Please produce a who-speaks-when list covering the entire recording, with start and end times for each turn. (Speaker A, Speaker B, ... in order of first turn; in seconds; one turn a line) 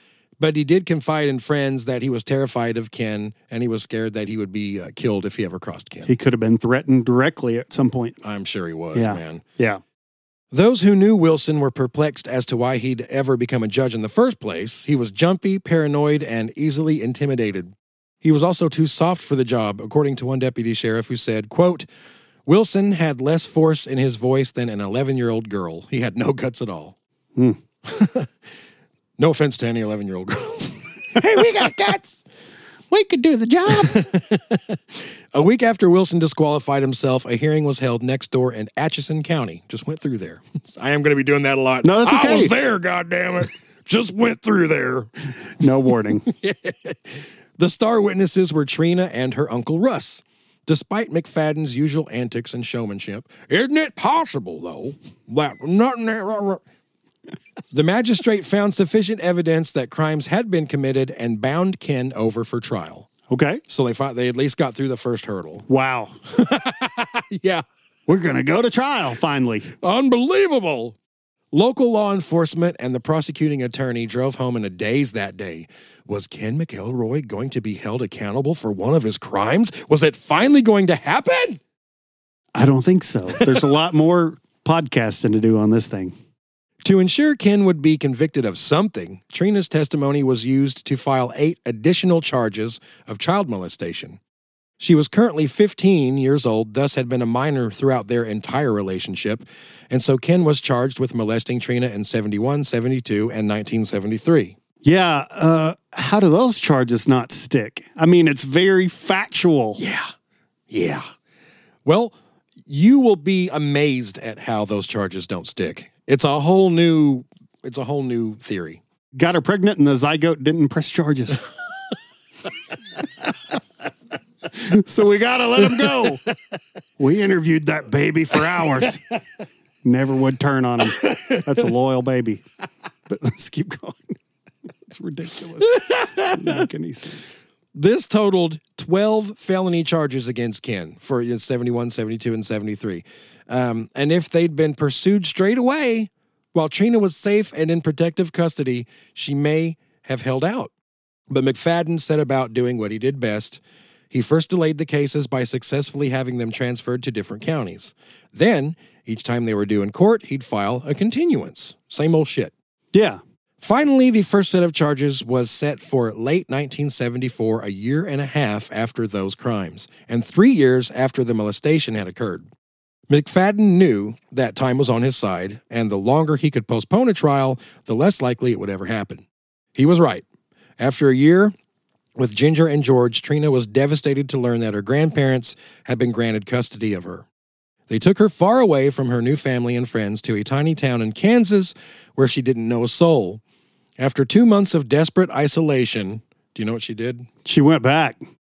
Speaker A: 0.4-6.1
Speaker B: 6.1-8.2
Speaker A: 8.2-9.4
Speaker B: 8.9-9.8
Speaker A: 10.5-21.9
Speaker A: 22.4-27.0
Speaker A: 27.8-28.3
Speaker A: 29.2-32.2
Speaker A: 32.9-45.1
Speaker B: 41.8-42.5
Speaker B: 45.6-46.3
Speaker A: 46.2-56.6
Speaker A: 57.7-63.1
Speaker B: 63.3-63.6
Speaker A: 63.7-65.7
Speaker B: 65.7-66.2
Speaker A: 66.3-67.6
Speaker B: 68.1-69.7
Speaker A: 69.8-71.0
Speaker A: 71.5-81.6
Speaker B: 82.6-86.1
Speaker A: 86.8-94.2
Speaker A: 94.8-104.6
Speaker B: 104.8-109.8
Speaker A: 109.8-110.1
Speaker A: 110.7-111.1
Speaker A: 111.8-118.8
Speaker B: 119.1-121.5
Speaker B: 124.5-126.2
Speaker A: 125.7-126.1
Speaker B: 127.0-129.0
Speaker A: 128.6-128.9
Speaker B: 129.8-132.4
Speaker A: 130.8-131.6
Speaker B: 133.1-134.2
Speaker B: 134.9-137.4
Speaker A: 135.6-136.6
Speaker A: 137.8-150.7
Speaker A: 151.3-162.5
Speaker B: 162.9-163.2
Speaker A: 163.6-172.5
Speaker A: 173.1-179.2
Speaker A: 179.8-180.2
Speaker A: 180.8-181.5
Speaker A: 182.2-187.3
Speaker A: 187.9-193.4
Speaker A: 194.0-197.3
Speaker B: 197.4-198.2